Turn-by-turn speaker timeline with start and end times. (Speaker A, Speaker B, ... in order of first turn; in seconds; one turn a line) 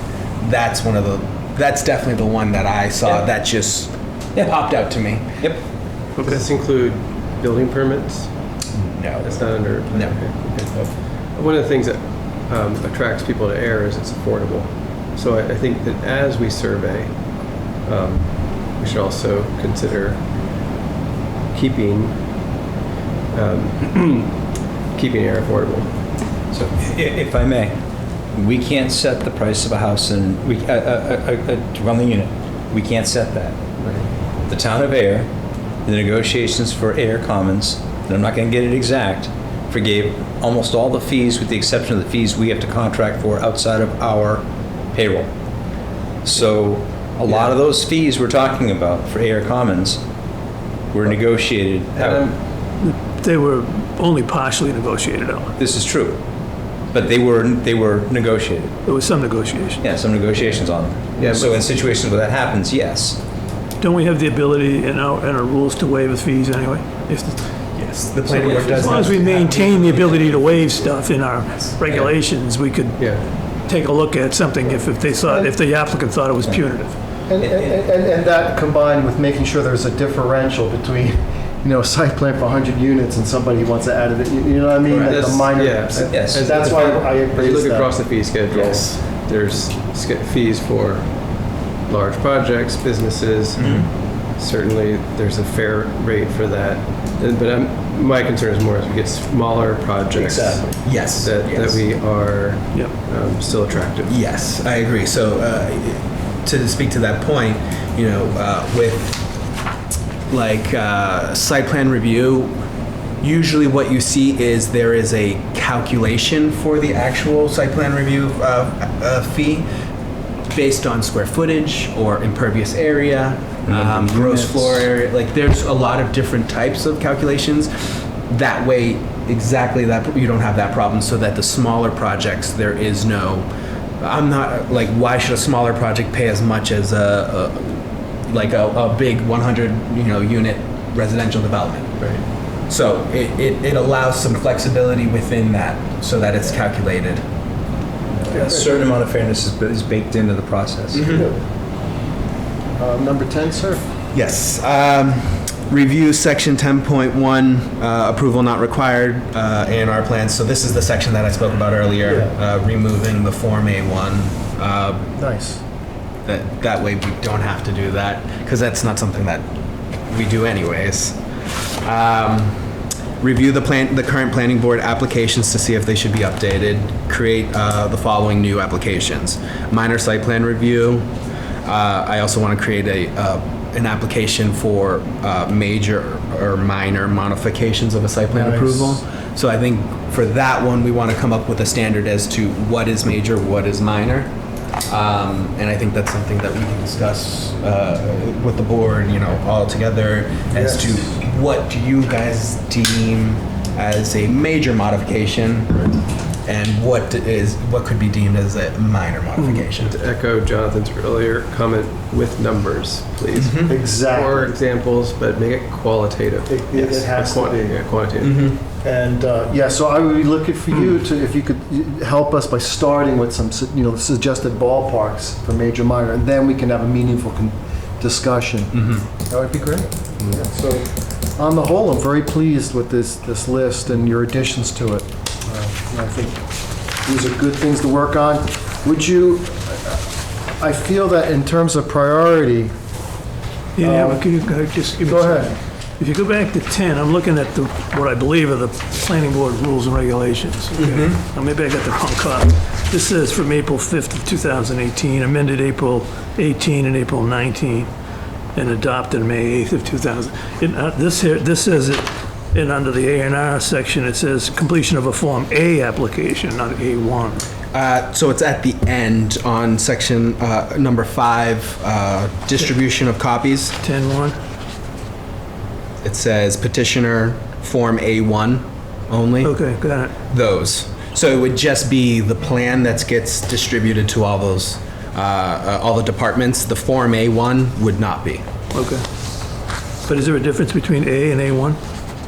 Speaker A: 0.4-5.3
Speaker B: 4.3-4.8
Speaker C: 6.2-8.3
Speaker A: 8.8-10.2
Speaker C: 9.2-20.3
Speaker C: 21.5-22.2
Speaker C: 23.3-25.9
Speaker B: 26.5-27.8
Speaker B: 28.4-33.6
Speaker C: 33.8-34.1
Speaker B: 34.5-35.3
Speaker B: 35.9-45.3
Speaker B: 46.2-50.0
Speaker C: 47.3-47.5
Speaker B: 50.9-52.3
Speaker C: 51.9-52.4
Speaker D: 52.8-55.5
Speaker B: 55.6-56.2
Speaker B: 56.9-58.8
Speaker D: 58.9-59.9
Speaker B: 59.8-63.2
Speaker C: 61.2-61.6
Speaker D: 63.8-67.5
Speaker A: 67.8-70.5
Speaker D: 68.1-77.2
Speaker C: 73.0-73.2
Speaker E: 75.1-75.5
Speaker E: 77.3-88.1
Speaker B: 77.4-77.8
Speaker A: 84.9-85.2
Speaker C: 84.9-104.2
Speaker B: 86.0-86.5
Speaker B: 88.5-88.8
Speaker B: 93.6-93.9
Speaker B: 100.2-100.7
Speaker A: 100.8-101.8
Speaker A: 104.1-109.2
Speaker A: 110.3-112.6
Speaker A: 113.2-119.7
Speaker A: 120.5-127.7
Speaker B: 123.7-124.9
Speaker A: 128.3-133.5
Speaker A: 134.0-142.1
Speaker A: 142.7-147.2
Speaker E: 148.3-148.8
Speaker B: 148.3-151.2
Speaker A: 150.9-151.3
Speaker E: 151.1-151.4
Speaker E: 152.8-153.9
Speaker A: 154.1-165.1
Speaker E: 162.0-162.3
Speaker E: 165.2-165.6
Speaker A: 166.3-169.4
Speaker A: 170.1-171.2
Speaker A: 171.8-172.6
Speaker A: 173.2-181.1
Speaker A: 181.7-194.3
Speaker E: 188.3-189.0
Speaker A: 194.9-205.9
Speaker E: 200.5-201.2
Speaker A: 206.4-209.9
Speaker D: 209.4-209.6
Speaker C: 209.7-218.5
Speaker A: 213.3-213.8
Speaker E: 213.7-214.6
Speaker E: 216.5-240.1
Speaker A: 218.2-218.6
Speaker A: 228.7-229.1
Speaker E: 240.6-242.8
Speaker D: 243.8-257.9
Speaker E: 243.8-244.3
Speaker E: 245.0-245.5
Speaker A: 250.8-251.2
Speaker D: 258.6-267.5
Speaker A: 267.7-273.8
Speaker D: 273.8-274.4
Speaker A: 276.0-279.6
Speaker D: 279.4-280.1
Speaker A: 280.3-288.4
Speaker D: 288.7-289.0
Speaker D: 290.1-291.8